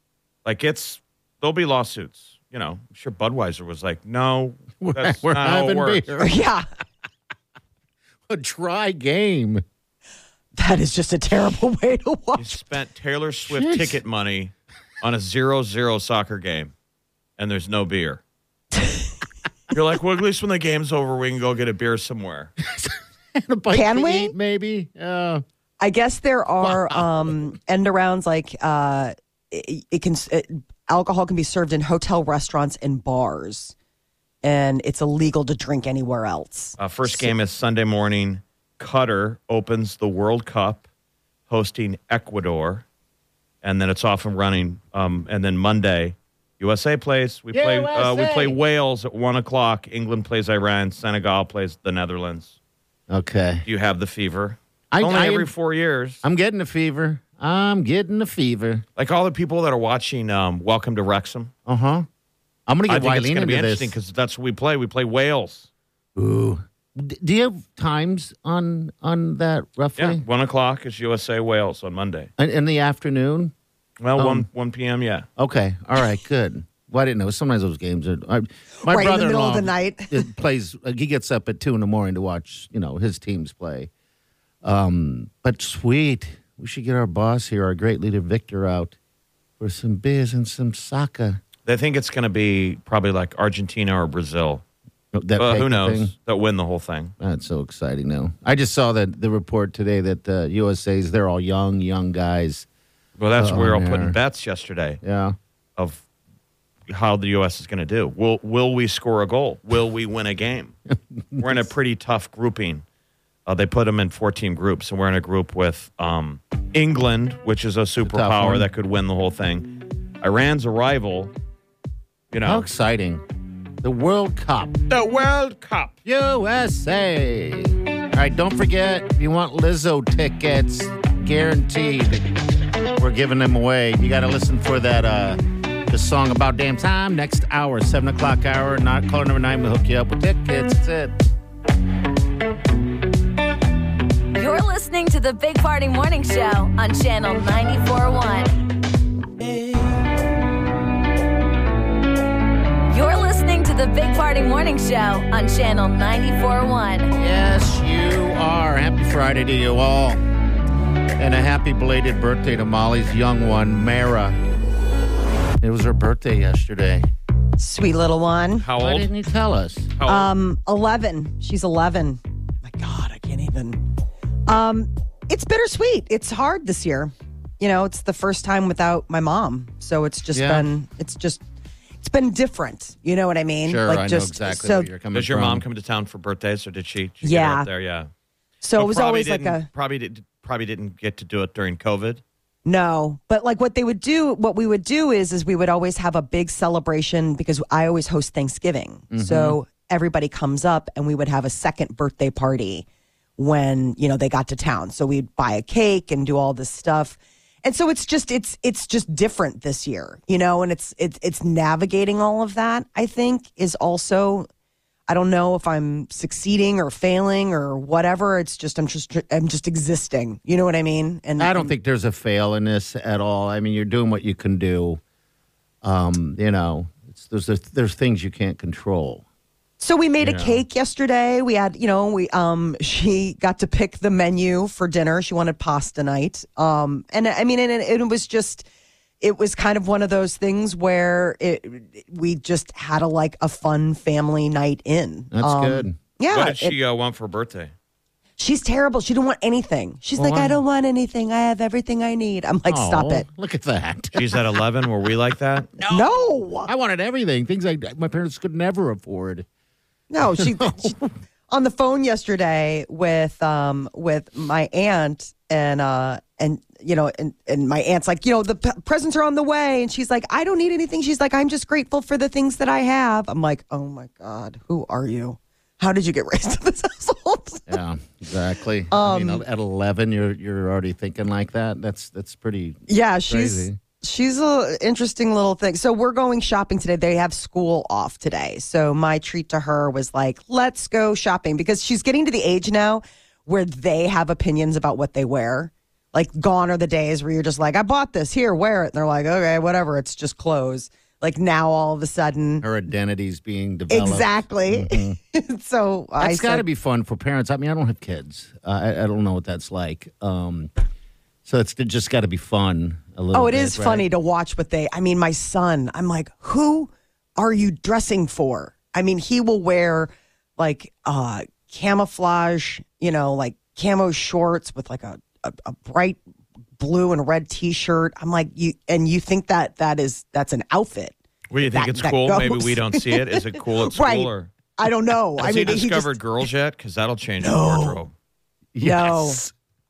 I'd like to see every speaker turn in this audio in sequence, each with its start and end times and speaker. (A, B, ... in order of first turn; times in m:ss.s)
0:00.4-0:06.1 A
0:04.8-0:06.4 B
0:06.2-0:06.6 C
0:08.3-0:09.6 B
0:10.6-0:12.6 C
0:12.4-0:16.7 A
0:13.4-0:14.0 B
0:17.4-0:18.2 A
0:19.7-0:22.5 A
0:22.6-0:25.4 B
0:23.7-0:24.3 C
0:25.8-0:33.7 C
0:26.6-0:27.3 B
0:34.4-0:37.3 C
0:36.8-0:40.8 A
0:41.5-0:42.8 A
0:43.6-0:52.5 A
0:47.5-0:48.6 B
0:53.1-0:53.6 B
0:53.6-0:56.2 A
0:54.9-0:55.5 B
0:56.2-0:58.8 B
0:59.0-1:01.5 A
1:01.6-1:02.1 B
1:02.7-1:04.0 B
1:02.9-1:05.7 A
1:06.2-1:10.2 B
1:10.0-1:12.3 A
1:12.4-1:13.5 B
1:14.0-1:15.3 A
1:14.2-1:14.5 B
1:15.4-1:23.9 B
1:18.8-1:20.3 C
1:24.6-1:29.0 B
1:29.6-1:31.4 B
1:31.6-1:34.6 A
1:35.1-1:36.1 B
1:35.4-1:37.1 A
1:37.2-1:42.7 B
1:43.2-1:45.0 A
1:43.4-1:44.2 B
1:45.0-1:45.4 B
1:45.8-1:46.0 A
1:46.9-1:50.7 A
1:51.1-1:51.7 B
1:51.4-1:52.8 A
1:53.4-2:01.3 A
1:58.0-1:58.7 B
2:02.3-2:02.6 A
2:02.4-2:03.2 B
2:03.8-2:04.8 B
2:04.9-2:05.9 A
2:06.0-2:12.2 B
2:13.0-2:21.1 B
2:24.3-2:28.5 D
2:32.9-2:37.1 D
2:37.1-2:40.2 B
2:41.2-2:44.4 B
2:45.6-2:47.1 B
2:47.6-2:48.6 C
2:48.6-2:49.1 A
2:48.8-2:49.9 B
2:50.0-2:50.3 A
2:50.0-2:53.9 C
2:54.5-3:01.4 C
3:00.3-3:00.7 B
3:02.0-3:04.9 C
3:03.6-3:05.6 B
3:05.1-3:08.1 A
3:07.2-3:07.7 C
3:08.6-3:09.7 C
3:08.8-3:12.2 A
3:12.6-3:22.8 C
3:19.1-3:19.6 B
3:23.4-3:34.5 C
3:35.1-3:41.7 C
3:41.4-3:45.0 B
3:45.8-3:49.2 B
3:49.8-3:58.7 C
3:50.2-3:50.6 B
3:59.2-4:06.8 C
4:05.3-4:06.0 B
4:06.3-4:07.7 A
4:08.4-4:13.2 C
4:10.2-4:10.6 B
4:12.7-4:14.5 B
4:14.1-4:15.7 A
4:15.9-4:16.7 C
4:16.6-4:19.4 B
4:20.1-4:21.0 C
4:20.2-4:21.1 B
4:21.5-4:37.7 C
4:37.7-4:43.8 B
4:38.9-4:39.4 C
4:42.9-5:02.6 C
5:02.6-5:05.2 B
5:03.9-5:06.6 C
5:06.2-5:10.7 B
5:11.4-5:14.0 B
5:13.3-5:26.2 C
5:26.8-5:31.1 C
5:31.5-5:34.5 A
5:31.7-5:36.2 C
5:35.4-5:38.1 A
5:37.4-5:38.0 C
5:38.7-5:39.5 B
5:38.8-5:39.4 C